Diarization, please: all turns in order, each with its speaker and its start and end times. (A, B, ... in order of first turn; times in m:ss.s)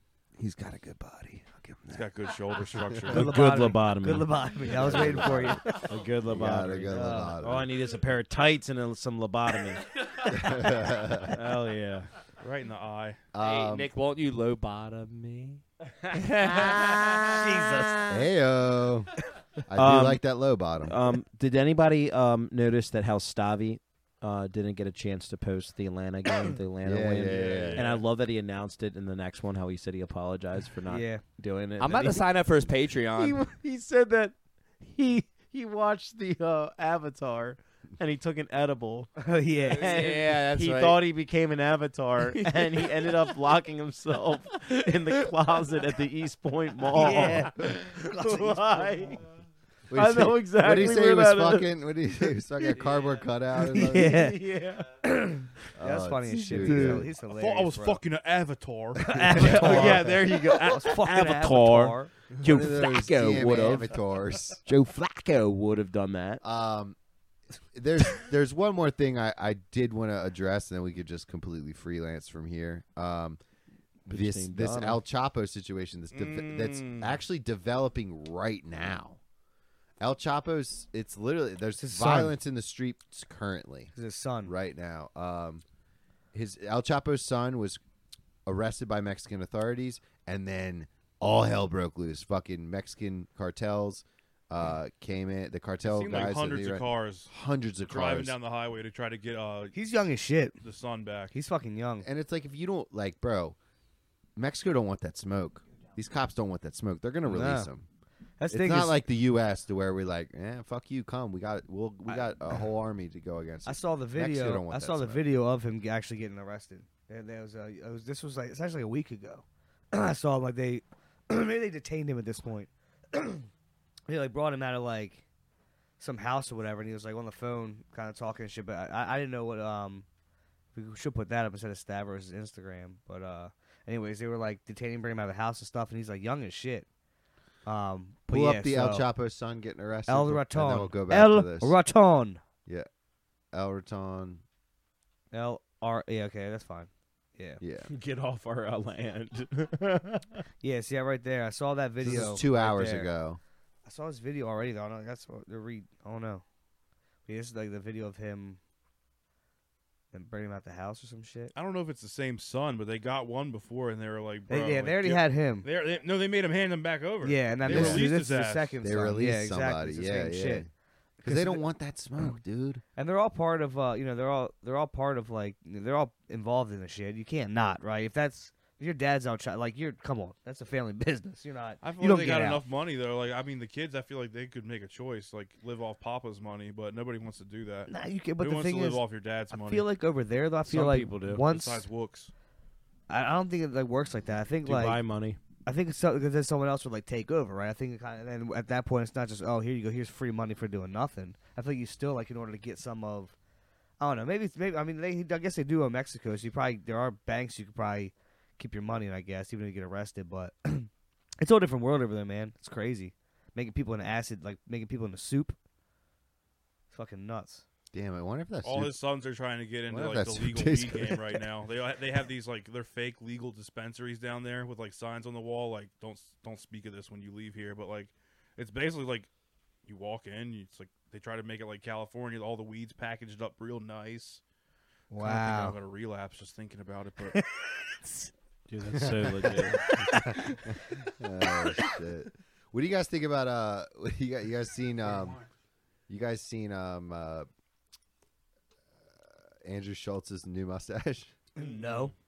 0:00.8-0:01.0 A
0:01.9-0:03.3 B
0:02.6-0:03.1 A
0:03.1-0:10.7 C
0:03.1-0:05.7 D
0:04.7-0:07.7 A
0:06.9-0:07.4 D
0:10.3-0:11.4 A
0:11.3-0:12.1 C
0:12.4-0:13.2 B
0:13.3-0:13.9 A
0:13.4-0:17.4 E
0:16.6-0:17.0 C
0:17.3-0:18.0 D
0:18.1-0:19.1 A
0:19.7-0:21.0 A
0:19.7-0:20.2 C
0:20.8-0:32.2 C
0:26.8-0:27.9 A
0:27.2-0:28.0 B
0:30.9-0:31.2 D
0:31.8-0:33.4 E
0:33.2-0:39.1 C
0:39.2-0:40.0 D
0:39.7-0:49.2 C
0:39.8-0:41.0 E
0:47.0-0:49.1 D
0:49.9-0:54.2 A
0:49.9-0:51.7 C
0:52.6-0:55.1 C
0:53.8-0:54.4 D
0:55.0-0:58.0 D
0:55.8-0:57.1 A
0:56.3-0:57.1 C
0:57.2-1:00.1 B
0:59.0-1:02.1 D
0:59.2-1:06.4 C
1:02.4-1:04.6 A
1:06.4-1:07.0 A
1:07.7-1:13.4 A
1:14.1-1:15.0 C
1:14.1-1:19.2 A
1:16.1-1:17.2 B
1:20.0-1:23.9 A
1:21.8-1:22.4 D
1:23.9-1:24.5 D
1:24.4-1:25.6 A
1:26.3-1:27.8 A
1:28.5-1:38.4 A
1:35.8-1:37.3 B
1:37.9-1:39.8 B
1:39.7-1:40.6 D
1:40.6-1:41.3 B
1:41.3-1:42.1 D
1:42.0-1:43.6 A
1:44.4-1:47.9 A
1:47.3-1:47.7 D
1:48.4-1:49.0 D
1:48.5-1:55.2 A
1:52.1-1:52.4 D
1:53.7-2:03.5 D
2:04.1-2:05.2 D
2:06.0-2:10.1 D
2:10.7-2:16.9 D
2:17.7-2:19.1 D
2:18.3-2:21.8 A
2:20.1-2:22.4 D
2:23.5-2:24.4 A
2:25.3-2:27.6 D
2:27.6-2:27.9 A
2:27.8-2:30.4 C
2:30.6-2:33.1 D
2:32.0-2:33.4 A
2:33.8-2:36.4 D
2:37.3-2:38.6 D
2:40.1-2:41.5 D
2:41.5-2:48.8 B
2:44.5-2:45.7 D
2:47.2-2:50.7 D
2:47.6-2:48.0 A
2:48.8-2:50.7 A
2:51.2-2:51.7 D
2:51.2-2:52.8 A
2:53.0-3:02.6 D
3:01.8-3:09.9 B
3:07.9-3:11.9 D
3:10.7-3:11.4 C
3:11.4-3:12.3 B
3:13.1-3:15.0 D
3:14.6-3:15.4 C
3:15.6-3:23.3 D
3:24.0-3:30.9 D
3:31.4-3:35.6 D
3:36.9-3:37.6 D
3:37.9-3:38.9 A
3:38.6-3:49.3 B
3:39.9-3:41.4 A
3:49.8-3:54.4 B
3:55.1-3:55.8 D
3:55.2-3:57.4 B
3:57.3-3:58.3 D
3:58.7-3:59.8 C
3:58.9-4:05.4 A
3:59.7-4:00.6 D
4:06.1-4:07.5 A
4:09.6-4:11.4 A
4:11.6-4:12.1 D
4:11.6-4:12.1 B